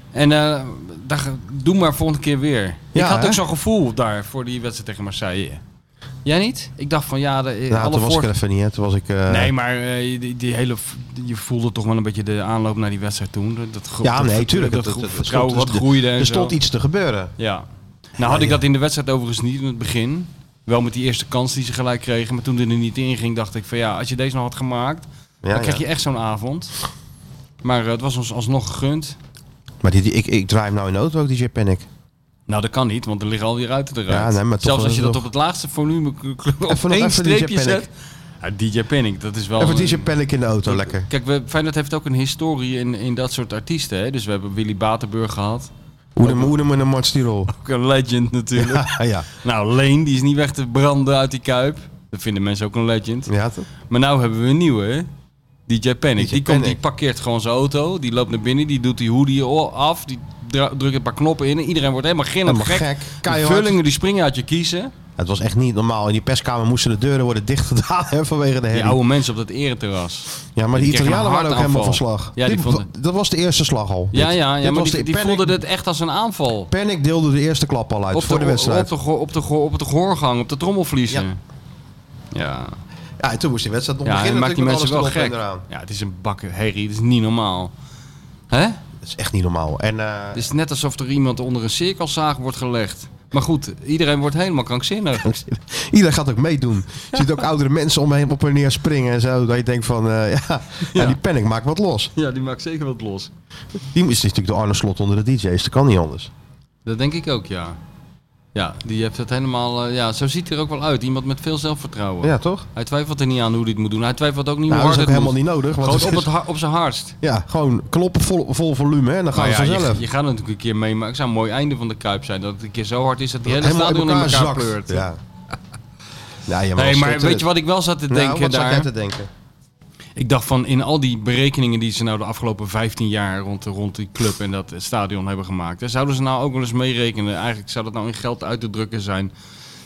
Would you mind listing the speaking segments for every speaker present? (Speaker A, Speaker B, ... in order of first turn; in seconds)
Speaker A: 0.1-5.6, 6.2-8.3, 9.3-16.6, 17.4-17.6, 18.2-26.7, 27.6-29.2, 32.5-37.9, 38.4-40.1, 40.7-45.7, 46.2-46.5, 47.5-53.3, 53.9-55.1, 55.7-64.9, 68.7-72.9, 74.1-76.7, 78.1-81.4, 82.3-82.8, 84.0-87.7, 88.5-88.8, 90.3-95.3, 102.2-103.3, 106.8-107.8, 108.5-117.2, 119.3-125.0, 126.8-128.9, 130.2-139.3
Speaker B: 2.9-3.4, 7.7-9.5, 14.0-17.3, 18.2-18.6, 25.4-25.8, 29.8-31.9, 34.1-35.2, 36.7-37.9, 39.6-41.1, 46.1-47.5, 48.6-49.3, 53.3-53.7, 56.2-56.8, 62.4-63.8, 65.2-69.0, 70.5-75.6, 76.7-78.9, 83.2-85.6, 89.0-90.4, 95.2-102.1, 103.9-106.3, 112.2-112.7, 114.7-116.3, 117.2-120.0, 123.5-125.2, 126.5-127.5, 128.1-129.3